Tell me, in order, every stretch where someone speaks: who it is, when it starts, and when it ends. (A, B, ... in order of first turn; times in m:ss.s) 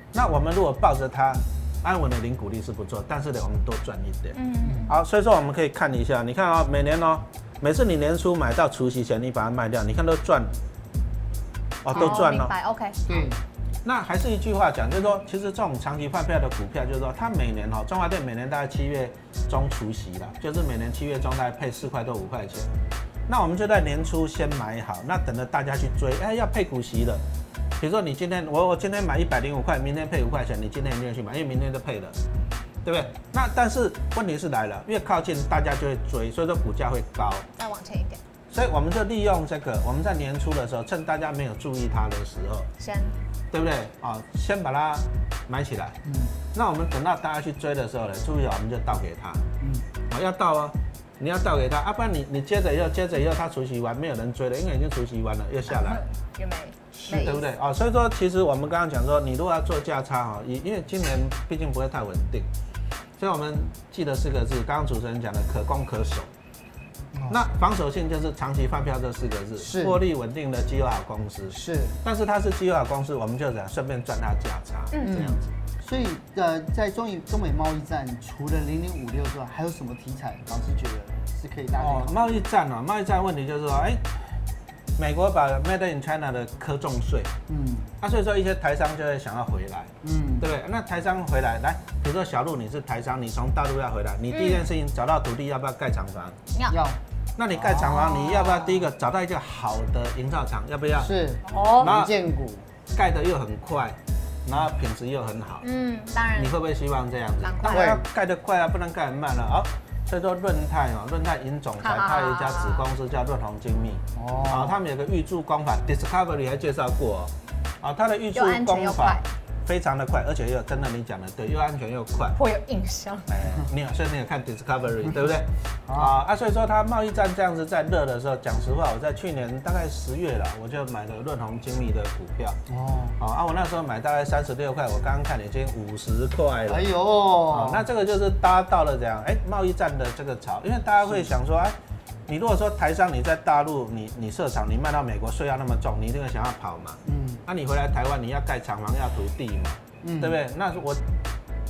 0:00.1-0:10.6 A
0:04.3-0:05.0 B
0:04.6-0:04.9 C
0:11.8-0:12.5 A
0:11.9-0:13.3 B
0:11.9-0:12.2 C
0:13.0-0:13.4 C
0:13.8-0:22.7 A
0:23.3-0:27.2 A
0:27.8-0:32.2 A
0:32.8-0:37.5 A
0:37.6-0:38.2 B
0:38.5-0:42.7 A
0:42.8-0:43.1 B
0:43.5-0:46.0 A
0:46.0-0:46.3 C
0:46.5-0:49.4 A
0:50.1-0:56.0 A
0:55.7-0:57.5 B
0:57.0-1:02.5 A
1:03.2-1:06.3 A
1:07.1-1:07.4 C
1:07.3-1:15.5 A
1:09.6-1:10.0 C
1:11.5-1:12.0 C
1:14.9-1:15.2 B
1:15.0-1:22.2 C
1:21.8-1:24.4 A
1:25.0-1:27.3 A
1:27.5-1:27.9 C
1:28.0-1:36.4 A
1:30.0-1:30.5 C
1:34.3-1:34.6 B
1:36.7-1:37.0 C
1:37.4-1:41.1 A
1:37.5-1:38.5 C
1:38.0-1:38.7 B
1:41.0-1:42.6 C
1:41.4-1:41.9 B
1:41.8-1:42.1 A
1:42.9-1:45.6 A
1:45.6-1:46.6 B
1:46.3-2:02.4 A
1:47.4-1:47.9 B
1:47.7-1:48.0 C
1:51.8-1:52.8 B
1:54.1-1:54.8 C
1:58.3-1:59.2 B
2:02.4-2:03.3 B
2:03.3-2:12.6 A
2:05.9-2:06.2 C
2:12.7-2:13.2 C
2:13.2-2:16.9 A
2:16.7-2:17.8 C
2:17.4-2:21.8 A
2:22.3-2:31.0 A
2:27.0-2:27.4 C
2:30.0-2:30.4 C